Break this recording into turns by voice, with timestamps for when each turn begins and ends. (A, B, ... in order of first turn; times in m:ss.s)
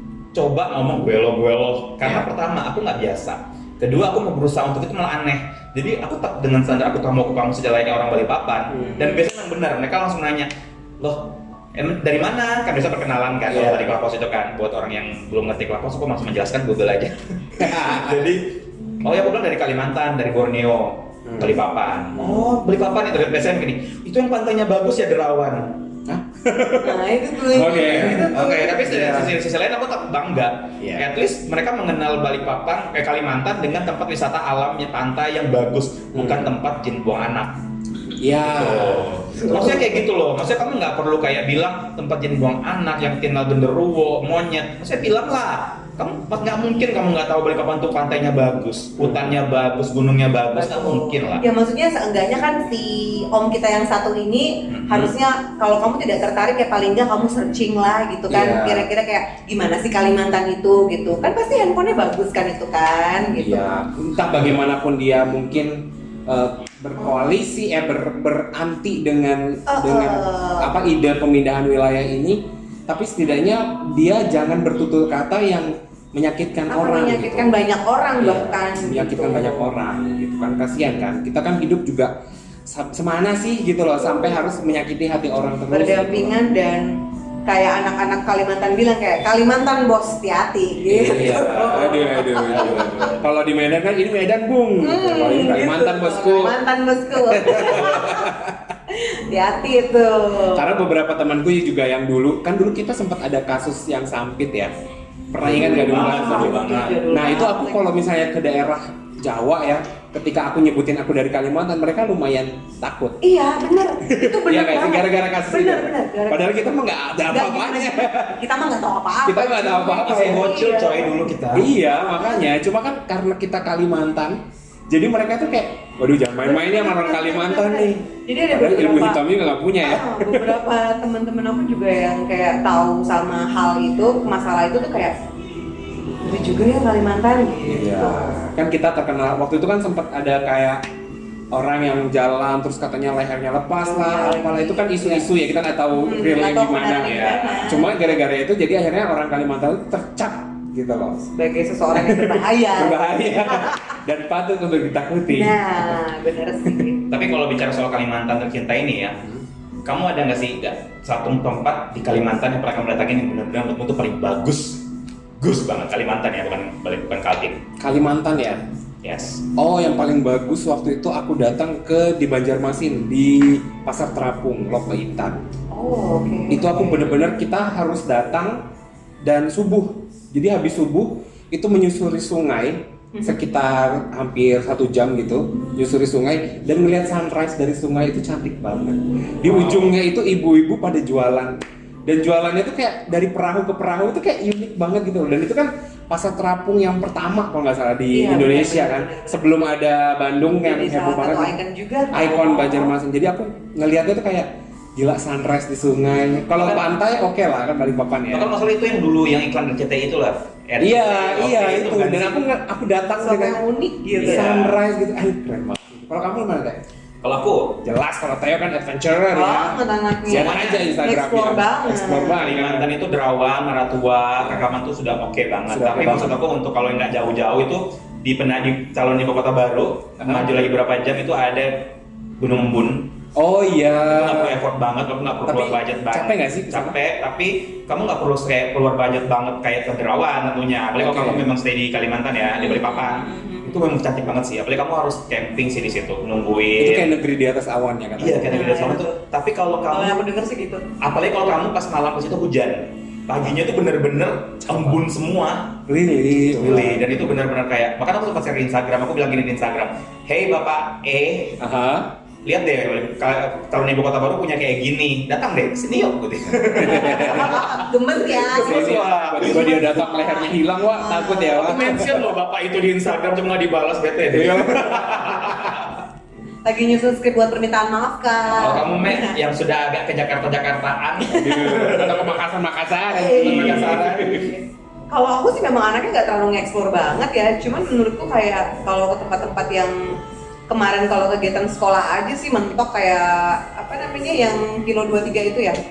0:00.3-0:25.8 A
0:08.8-0:09.2 B
0:13.5-0:14.0 C
0:17.6-0:18.2 C
0:21.2-0:21.6 C
0:26.1-0:29.3 C
0:26.8-0:28.8 B
0:27.8-0:37.5 A
0:30.8-0:31.0 C
0:36.1-0:36.5 C
0:38.2-0:40.0 C
0:38.4-0:51.4 A
0:49.0-0:49.3 C
0:50.5-1:03.6 B
0:54.7-0:55.1 A
0:58.3-0:58.9 C
1:03.4-1:17.6 C
1:09.7-1:10.7 B
1:16.7-1:19.7 B
1:18.2-1:22.1 C
1:22.7-1:26.4 C
1:25.7-1:33.1 B
1:30.9-1:36.6 C
1:31.0-1:32.0 A
1:34.8-1:38.3 B
1:37.1-1:38.7 C
1:38.9-1:40.8 B
1:40.5-1:44.7 C
1:45.3-1:53.2 C
1:45.4-1:47.0 A
1:45.5-1:47.8 B
1:53.2-1:56.6 B
1:54.0-1:58.5 C
1:57.3-2:01.1 B
1:59.2-2:00.6 C
2:00.0-2:01.7 A
2:01.5-2:10.6 C
2:02.0-2:02.4 B
2:06.4-2:09.2 B
2:09.8-2:15.1 B
2:16.2-2:18.5 B
2:17.6-2:20.8 C
2:21.5-2:31.3 C
2:23.9-2:25.3 B
2:26.0-2:27.9 B
2:27.0-2:27.7 A
2:31.3-2:34.0 B
2:31.9-2:36.0 C
2:35.3-2:37.0 B
2:37.1-2:39.2 A
2:39.8-2:44.8 A
2:45.4-2:47.6 A
2:47.8-2:48.6 C
2:49.0-2:49.4 A
2:49.6-2:55.4 C
2:55.7-2:57.1 B
2:56.5-2:58.6 C
2:59.2-3:21.5 C
3:09.4-3:09.9 A
3:18.1-3:19.5 B
3:20.6-3:22.9 B
3:22.1-3:28.5 C
3:26.6-3:26.9 A
3:28.3-3:32.4 A
3:30.8-3:33.6 C
3:33.2-3:34.5 B
3:34.2-3:34.8 A
3:34.2-3:36.8 C
3:37.2-3:37.8 A
3:37.8-3:42.9 C
3:39.3-3:42.4 B
3:40.4-3:40.8 A
3:42.3-3:53.1 A
3:45.7-3:46.4 C
3:50.2-3:50.6 C
3:53.3-3:54.6 C
3:54.1-4:07.1 A
3:55.4-3:57.0 C
4:01.0-4:01.5 C
4:02.6-4:03.9 B
4:06.8-4:08.7 C
4:08.2-4:10.3 A
4:08.5-4:09.0 B
4:09.9-4:10.8 B
4:11.0-4:15.8 A
4:14.6-4:15.0 C
4:15.9-4:17.1 C
4:16.5-4:21.6 A
4:21.6-4:22.1 C
4:22.4-4:30.0 A
4:26.8-4:27.7 C
4:27.0-4:31.7 B
4:28.5-4:32.3 C
4:31.5-4:36.0 A
4:34.3-4:35.9 C
4:36.6-4:39.4 B
4:38.5-4:42.4 A
4:41.3-4:41.8 B
4:41.3-4:44.5 C
4:43.1-4:50.2 B
4:43.2-4:44.5 A
4:50.7-4:55.8 B